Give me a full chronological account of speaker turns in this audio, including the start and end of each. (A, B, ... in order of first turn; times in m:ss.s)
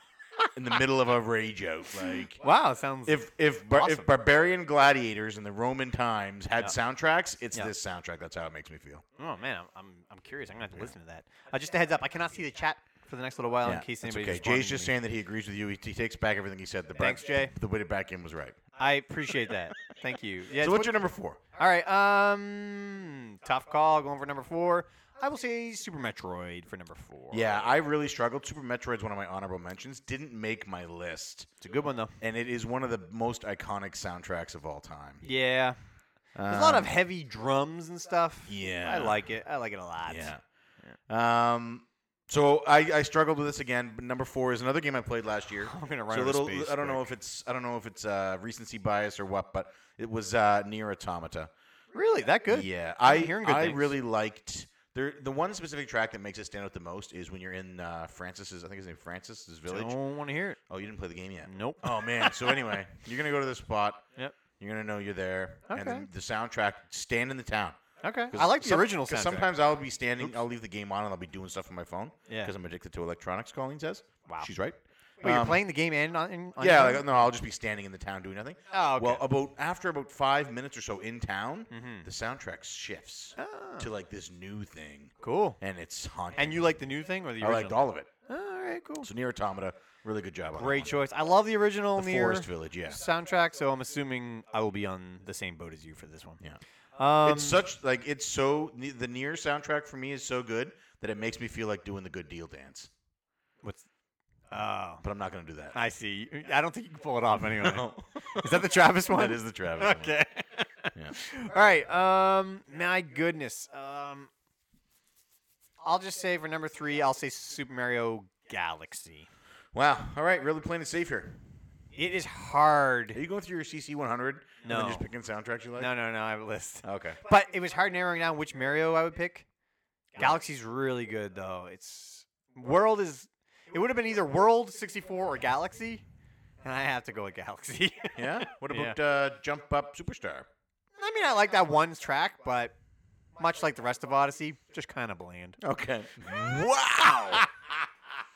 0:00.6-0:02.4 A
0:02.4-0:04.1 B
0:03.1-0:09.0 A
0:09.2-0:14.9 B
0:13.6-0:18.6 A
0:17.0-0:17.5 B
0:18.8-0:20.9 B
0:20.6-0:21.4 A
0:21.6-0:27.6 B
0:27.3-0:31.5 A
0:31.6-0:32.2 B
0:32.2-0:35.2 A
0:35.2-0:35.8 B
0:36.4-0:36.9 A
0:36.5-0:40.3 B
0:38.5-0:39.2 A
0:40.1-0:40.4 A
0:41.1-0:51.5 A
0:45.6-0:47.1 B
0:51.9-0:53.9 B
0:52.5-1:00.0 A
0:59.7-1:00.6 B
1:00.7-1:04.0 A
1:01.5-1:02.5 B
1:04.6-1:07.8 A
1:05.7-1:06.1 B
1:08.0-1:09.5 B
1:08.3-1:15.6 A
1:12.3-1:12.5 B
1:15.2-1:17.2 B
1:16.6-1:26.8 A
1:18.7-1:19.2 B
1:21.7-1:22.1 B
1:23.4-1:23.9 B
1:25.2-1:25.6 B
1:26.4-1:29.1 B
1:27.4-1:28.1 A
1:29.0-1:30.9 A
1:30.6-1:36.4 B
1:32.0-1:33.0 A
1:37.0-1:37.6 B
1:37.2-1:42.9 A
1:44.5-1:45.0 B
1:45.0-1:45.8 A
1:45.7-1:54.3 B
1:47.4-1:50.2 A
1:55.8-1:59.3 B
1:59.7-2:01.4 A
2:02.0-2:03.2 B
2:03.1-2:05.9 A
2:04.6-2:05.1 B
2:05.8-2:09.5 B
2:06.8-2:07.2 A
2:10.2-2:16.0 B
2:16.6-2:19.0 B
2:18.2-2:20.5 A
2:21.0-2:22.7 B
2:23.4-2:25.6 B
2:25.6-2:27.5 A